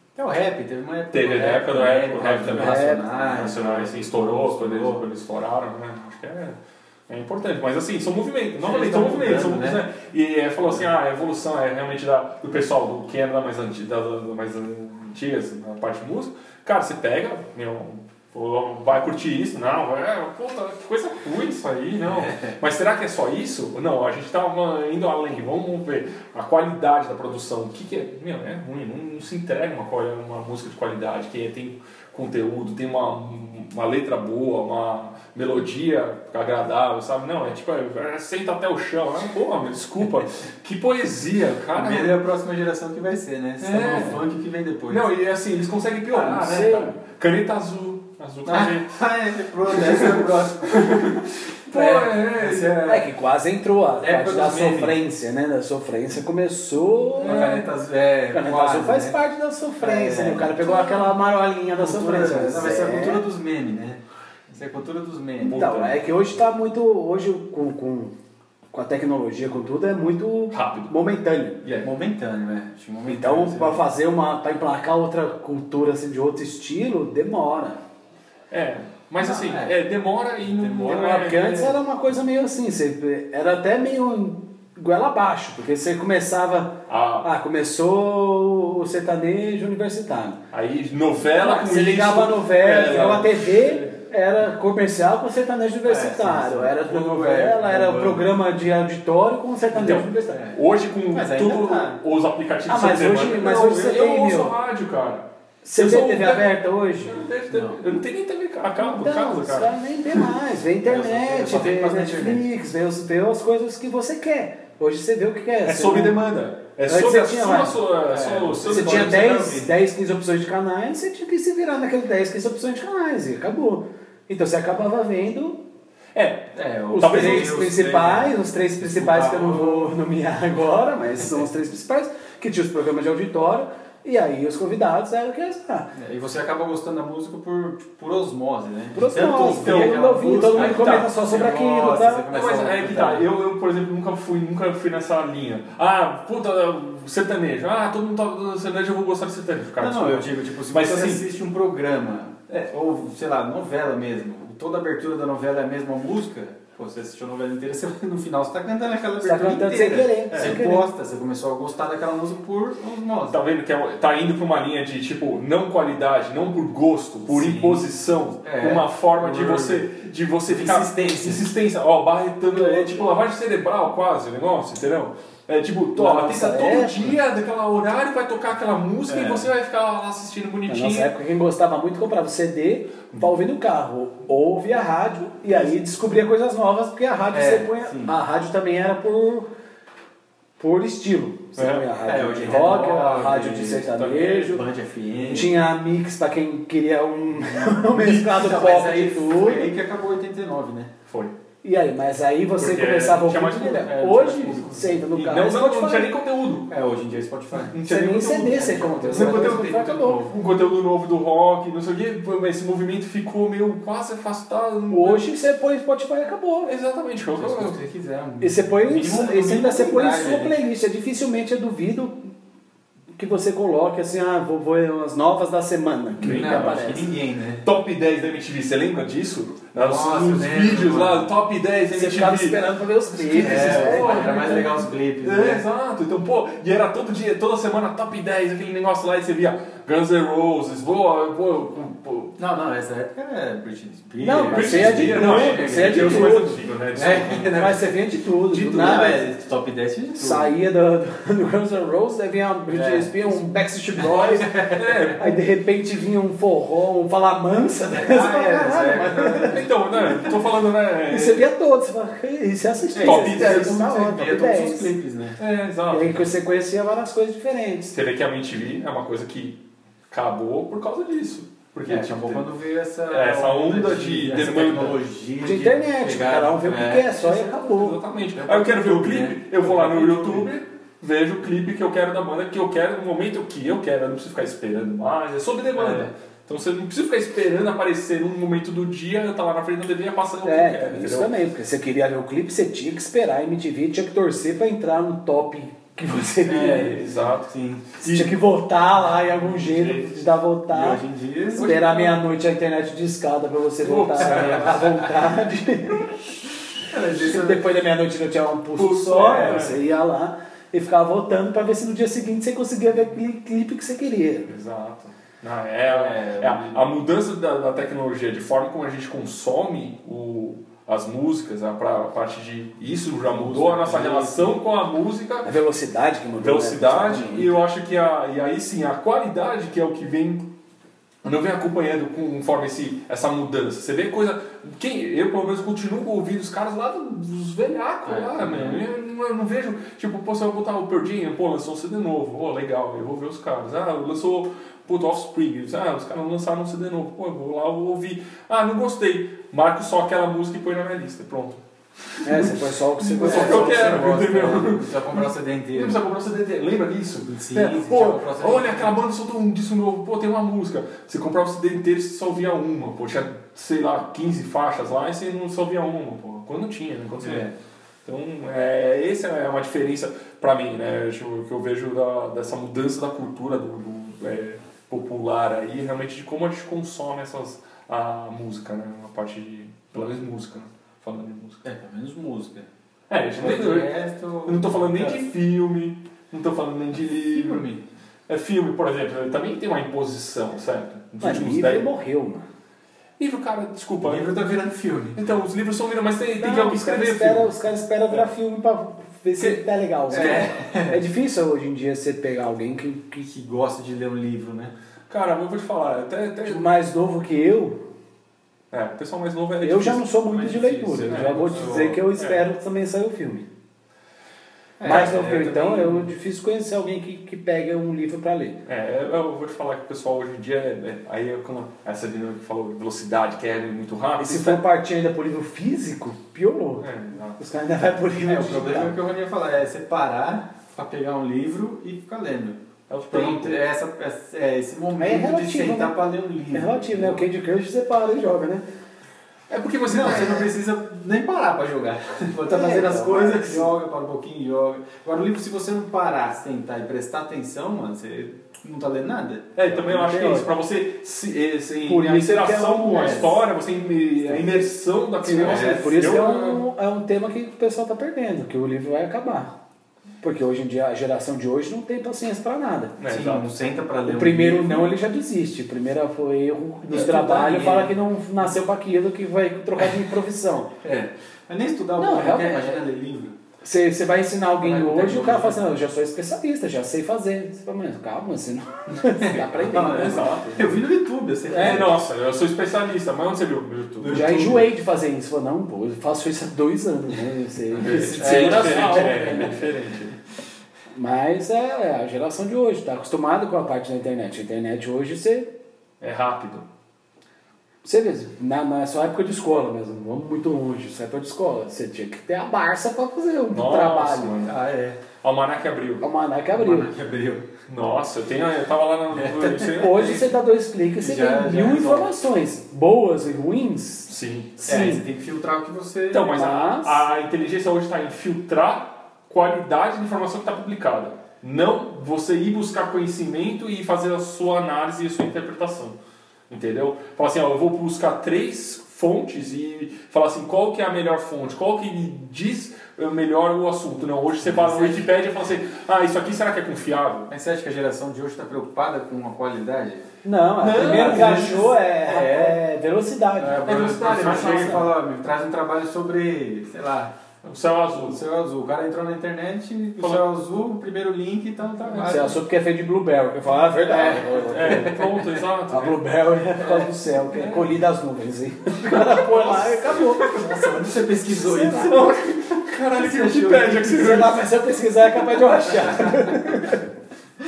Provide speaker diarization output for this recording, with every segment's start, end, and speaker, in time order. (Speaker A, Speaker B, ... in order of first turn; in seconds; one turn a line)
Speaker A: 0.1-5.0
Speaker B: 1.1-42.2
Speaker C: 2.4-3.1
Speaker A: 8.6-9.8
Speaker A: 22.1-22.5
Speaker A: 41.8-45.1
Speaker B: 43.6-44.2
Speaker B: 44.9-49.0
Speaker C: 46.1-47.0
Speaker A: 48.5-51.2
Speaker B: 49.7-52.8
Speaker C: 51.7-57.6
Speaker A: 51.9-53.1
Speaker A: 54.0-55.0
Speaker A: 57.2-59.2
Speaker B: 57.2-57.7
Speaker C: 58.3-63.3
Speaker A: 59.8-61.0
Speaker A: 61.8-65.7
Speaker B: 65.4-66.0
Speaker C: 65.4-68.1
Speaker C: 68.7-71.6
Speaker B: 70.5-71.0
Speaker B: 71.6-71.9
Speaker A: 71.8-73.8
Speaker C: 73.1-77.8
Speaker B: 78.5-81.8
Speaker A: 79.2-79.8
Speaker A: 80.5-81.2
Speaker C: 80.8-90.4
Speaker B: 86.9-87.3
Speaker B: 90.5-93.8
Speaker C: 91.4-100.4
Speaker A: 95.8-98.3
Speaker B: 99.8-110.2
Speaker A: 100.2-100.6
Speaker A: 101.1-102.0
Speaker C: 102.7-104.5
Speaker C: 105.6-107.2
Speaker A: 107.5-107.8
Speaker C: 108.8-116.2
Speaker A: 110.8-112.4
Speaker B: 115.6-119.7
Speaker C: 116.9-117.9
Speaker A: 118.1-119.7
Speaker C: 118.6-125.6
Speaker B: 126.2-127.6
Speaker A: 126.5-129.9
Speaker C: 126.9-135.9
Speaker A: 135.9-143.3
Speaker C: 138.9-142.3
Speaker B: 140.5-141.2
Speaker B: 142.3-151.2
Speaker A: 149.8-163.4
Speaker C: 159.2-160.9
Speaker B: 160.3-160.6
Speaker B: 163.3-181.1
Speaker A: 167.3-169.9
Speaker A: 170.5-171.5
Speaker A: 172.6-173.0
Speaker C: 176.0-177.2
Speaker A: 179.1-179.5
Speaker C: 180.7-189.5
Speaker A: 187.3-188.2
Speaker C: 190.6-194.6
Speaker B: 191.6-191.9
Speaker A: 192.1-195.5
Speaker B: 193.9-194.6
Speaker C: 195.2-199.7
Speaker A: 197.6-200.9
Speaker B: 201.1-201.3
Speaker C: 201.6-206.2
Speaker B: 202.6-206.7
Speaker A: 203.8-205.0
Speaker A: 206.7-210.3
Speaker B: 207.7-215.3
Speaker C: 207.8-210.3
Speaker C: 214.9-216.7
Speaker B: 216.6-217.8
Speaker A: 217.3-220.6
Speaker C: 218.4-222.3
Speaker C: 223.2-227.1
Speaker B: 226.2-227.0
Speaker A: 226.2-227.7
Speaker B: 227.6-232.6
Speaker A: 229.7-231.3
Speaker C: 231.9-234.8
Speaker B: 233.1-242.4
Speaker A: 233.3-235.6
Speaker A: 242.4-247.9
Speaker C: 244.2-246.6
Speaker B: 244.5-247.6
Speaker C: 247.6-249.3
Speaker B: 248.5-249.1
Speaker A: 248.5-250.5
Speaker C: 250.2-254.5
Speaker A: 252.7-255.2
Speaker B: 254.7-255.3
Speaker C: 255.2-259.7
Speaker A: 257.9-260.2
Speaker B: 259.4-261.5
Speaker C: 261.1-264.9
Speaker A: 262.9-265.4
Speaker B: 263.0-263.8
Speaker B: 265.4-266.3
Speaker C: 265.9-267.9
Speaker B: 267.9-272.5
Speaker A: 271.9-277.1
Speaker B: 273.1-275.0
Speaker C: 275.4-278.0
Speaker B: 277.1-291.3
Speaker A: 278.4-280.5
Speaker A: 285.7-286.1
Speaker C: 290.4-297.0
Speaker A: 296.4-298.0
Speaker B: 296.4-298.3
Speaker C: 298.0-301.0
Speaker B: 299.1-300.3
Speaker A: 300.7-301.8
Speaker B: 301.6-302.2
Speaker C: 301.6-306.2
Speaker B: 303.8-305.1
Speaker A: 304.3-304.6
Speaker A: 306.9-307.7
Speaker C: 307.2-314.5
Speaker B: 308.8-309.8
Speaker A: 309.2-309.8
Speaker B: 314.5-325.5
Speaker A: 315.9-316.9
Speaker A: 323.3-324.6
Speaker C: 325.4-327.6
Speaker B: 326.4-330.5
Speaker B: 331.2-367.5
Speaker A: 338.1-338.8
Speaker C: 352.2-354.1
Speaker A: 353.1-356.0
Speaker A: 357.2-358.9
Speaker A: 367.2-367.6
Speaker B: 368.1-381.6
Speaker A: 381.6-382.7
Speaker B: 383.1-383.9
Speaker A: 383.4-385.2
Speaker B: 384.4-387.7
Speaker A: 387.3-387.8
Speaker B: 388.3-391.9
Speaker C: 391.2-392.5
Speaker B: 393.2-394.3
Speaker A: 394.0-395.2
Speaker B: 395.2-397.5
Speaker C: 396.4-403.2
Speaker B: 399.4-400.5
Speaker A: 400.1-401.0
Speaker A: 403.2-404.7
Speaker B: 405.1-406.7
Speaker C: 406.4-407.8
Speaker B: 408.7-412.5
Speaker C: 409.6-413.5
Speaker A: 411.0-412.0
Speaker A: 414.8-416.0
Speaker C: 414.8-418.6
Speaker B: 414.8-415.6
Speaker B: 418.6-424.6
Speaker C: 424.2-429.0
Speaker B: 426.8-427.4
Speaker A: 428.2-437.2
Speaker B: 432.9-433.6
Speaker C: 435.0-436.0
Speaker C: 436.5-438.6
Speaker B: 439.5-440.5
Speaker A: 439.9-449.8
Speaker C: 442.5-443.7
Speaker B: 449.6-456.6
Speaker C: 449.8-450.5
Speaker C: 451.8-453.3
Speaker C: 455.2-459.5
Speaker A: 455.4-456.2
Speaker C: 460.2-463.0
Speaker B: 463.0-463.5
Speaker A: 463.1-464.9
Speaker C: 464.1-470.7
Speaker A: 466.9-468.0
Speaker A: 470.8-473.4
Speaker C: 472.0-472.8
Speaker C: 473.6-480.4
Speaker A: 474.6-475.7
Speaker A: 479.0-482.0
Speaker B: 479.9-480.6
Speaker C: 481.5-481.9
Speaker B: 481.5-484.5
Speaker A: 484.0-484.7
Speaker C: 484.1-489.6
Speaker B: 487.8-490.1
Speaker A: 487.9-489.9
Speaker C: 490.9-495.5
Speaker B: 496.0-496.7
Speaker C: 497.8-504.4
Speaker B: 503.5-504.5
Speaker A: 504.4-505.0
Speaker B: 505.2-506.1
Speaker C: 506.0-506.9
Speaker A: 506.5-507.5
Speaker B: 507.7-510.2
Speaker A: 509.1-510.3
Speaker C: 509.7-514.1
Speaker A: 511.0-512.1
Speaker B: 514.1-515.0
Speaker C: 514.6-515.0
Speaker A: 514.6-516.4
Speaker B: 516.1-526.0
Speaker C: 516.3-517.0
Speaker B: 526.5-537.3
Speaker A: 534.5-535.0
Speaker A: 537.3-540.1
Speaker C: 540.2-544.9
Speaker B: 540.6-541.6
Speaker A: 540.7-542.6
Speaker A: 543.4-547.1
Speaker B: 543.6-544.9
Speaker B: 547.4-548.2
Speaker A: 548.0-552.4
Speaker B: 550.0-550.3
Speaker B: 551.9-552.3
Speaker C: 552.0-555.1
Speaker A: 553.9-555.4
Speaker B: 554.1-556.0
Speaker C: 555.7-560.4
Speaker B: 557.3-557.7
Speaker B: 558.9-560.5
Speaker A: 560.3-562.2
Speaker C: 561.3-562.2
Speaker B: 561.6-564.4
Speaker A: 562.8-564.2
Speaker C: 563.8-566.8